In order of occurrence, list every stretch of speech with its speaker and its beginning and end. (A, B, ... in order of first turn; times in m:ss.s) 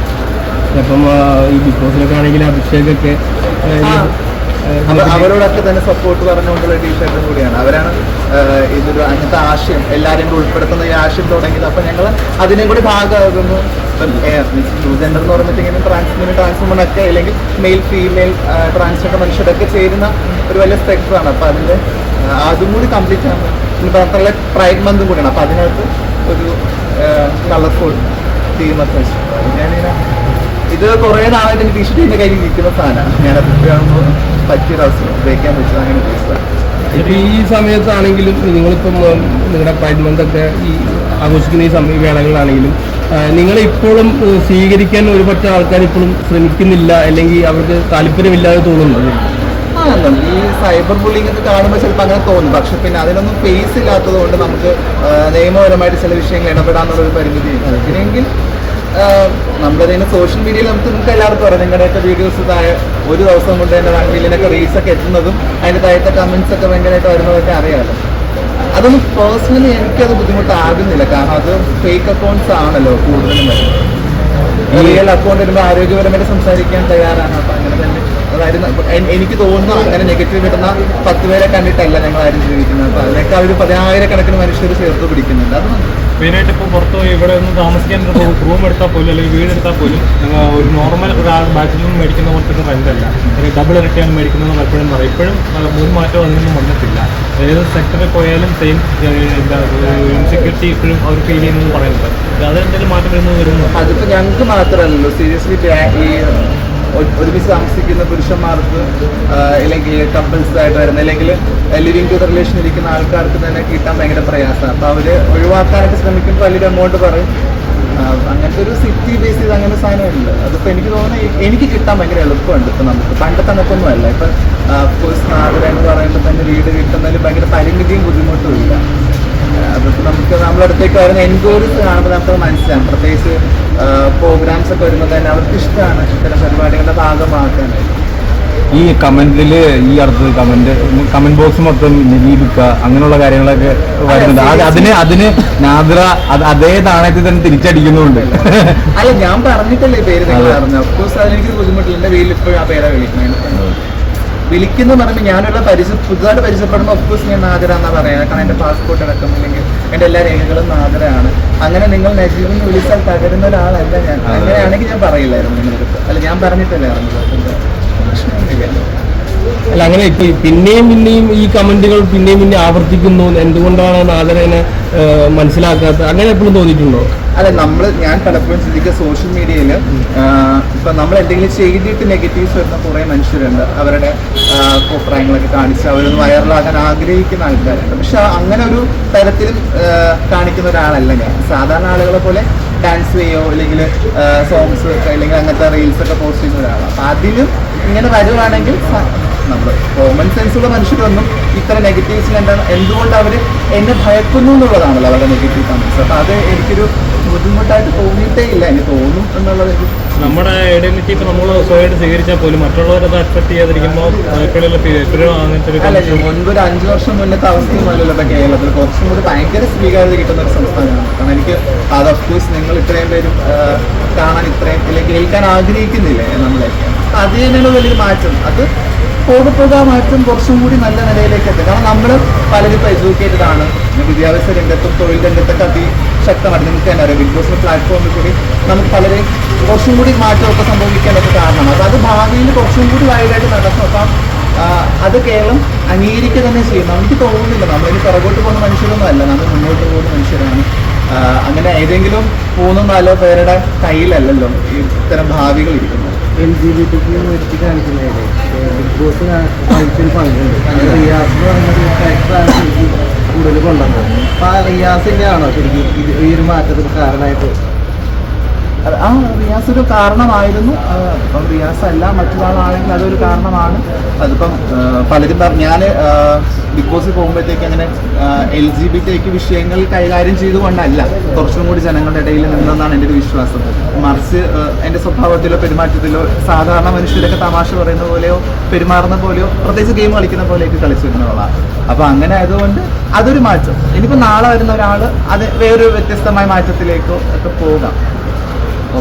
0:00.7-0:04.1 A
0:03.8-0:04.1 B
0:04.7-0:05.3 A
0:04.9-0:30.0 B
0:30.7-0:36.4 B
0:36.9-0:37.3 C
0:36.9-0:49.3 A
0:49.8-0:58.3 B
0:58.9-1:08.0 B
1:08.7-1:13.8 B
1:14.7-1:25.9 B
1:14.7-1:15.0 A
1:26.2-1:43.7 C
1:43.8-1:57.3 B
1:58.0-2:08.8 B
2:09.6-2:18.0 B
2:18.7-2:28.8 D
2:24.1-2:25.0 B
2:28.1-2:33.6 B
2:30.3-2:30.6 D
2:34.5-2:48.9 B
2:44.3-2:44.7 D
2:49.7-2:57.1 A
2:57.4-3:30.4 B
3:30.2-3:36.3 C
3:35.8-3:48.7 B
3:49.3-4:04.1 B
4:04.6-4:16.2 B
4:16.4-4:27.5 E
4:20.7-4:21.1 B
4:28.8-4:58.0 B